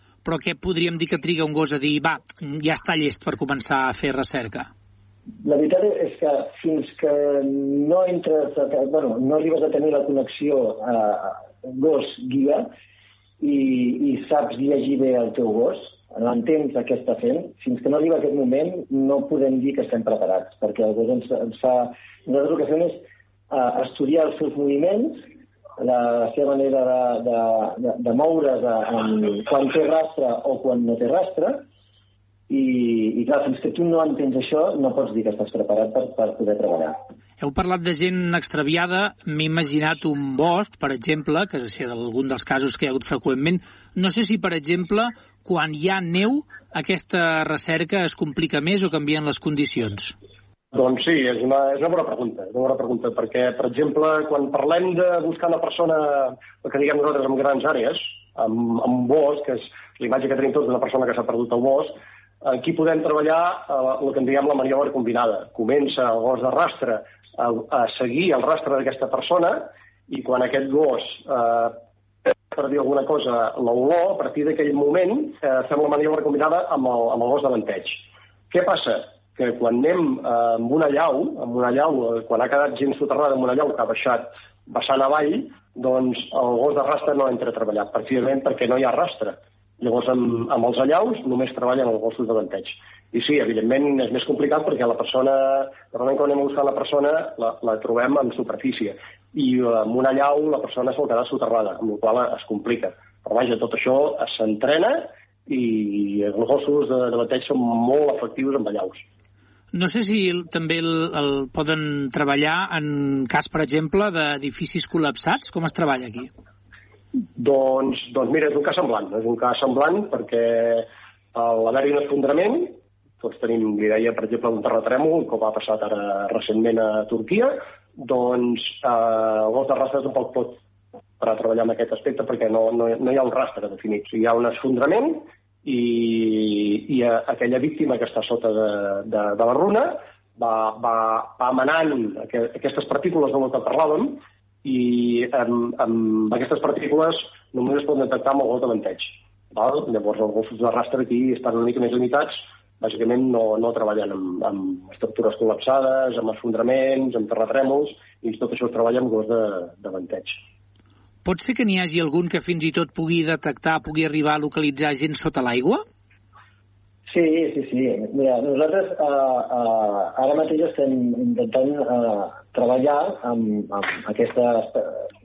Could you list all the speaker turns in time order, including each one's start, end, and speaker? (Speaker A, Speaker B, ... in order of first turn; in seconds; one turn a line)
Speaker A: 0.2-4.7
Speaker B: 5.4-12.7
Speaker B: 13.4-25.3
Speaker B: 25.8-31.6
Speaker B: 32.5-36.9
Speaker A: 37.4-50.1
Speaker C: 50.7-71.8
Speaker C: 72.5-109.0
Speaker A: 109.7-116.3
Speaker C: 117.3-130.6
Speaker C: 131.2-160.4
Speaker A: 161.2-165.8
Speaker B: 167.1-175.0